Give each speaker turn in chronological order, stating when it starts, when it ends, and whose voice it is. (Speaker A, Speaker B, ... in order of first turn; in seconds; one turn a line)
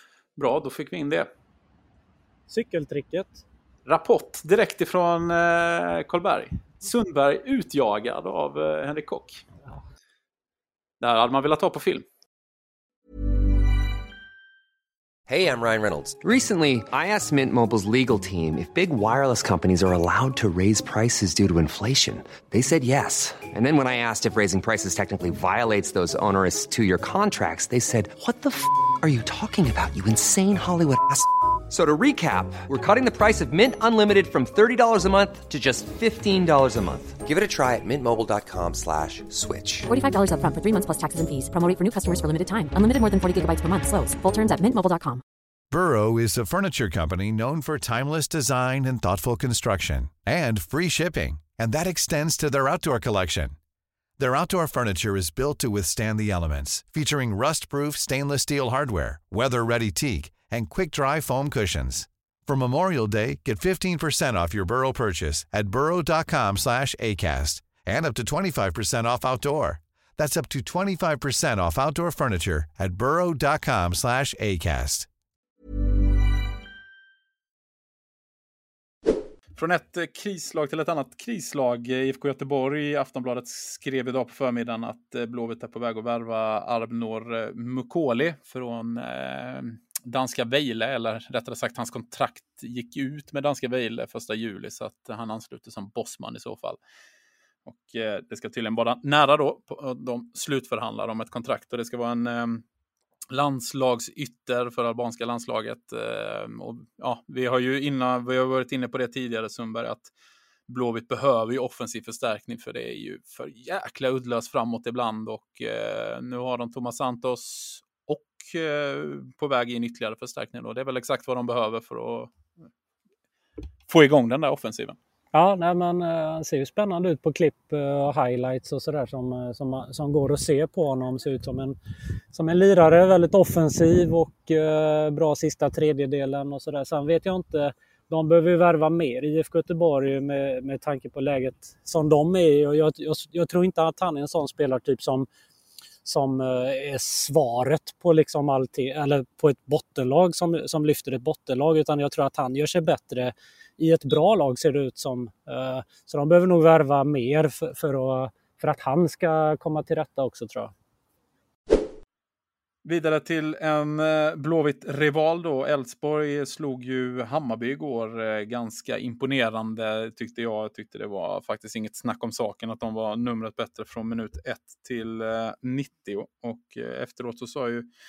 Speaker A: 0.4-1.3
Speaker B: 2.5-3.4
Speaker A: 3.9-9.4
Speaker A: 11.0-12.0
Speaker C: 15.3-31.2
Speaker C: 31.8-39.9
Speaker D: 39.9-45.2
Speaker E: 45.7-53.5
Speaker E: 54.2-75.1
Speaker A: 79.5-96.8
Speaker A: 97.7-102.6
Speaker A: 103.3-110.1
Speaker A: 110.7-122.3
Speaker A: 123.9-125.0
Speaker B: 125.3-131.8
Speaker B: 132.3-145.3
Speaker B: 146.0-160.7
Speaker A: 162.8-177.9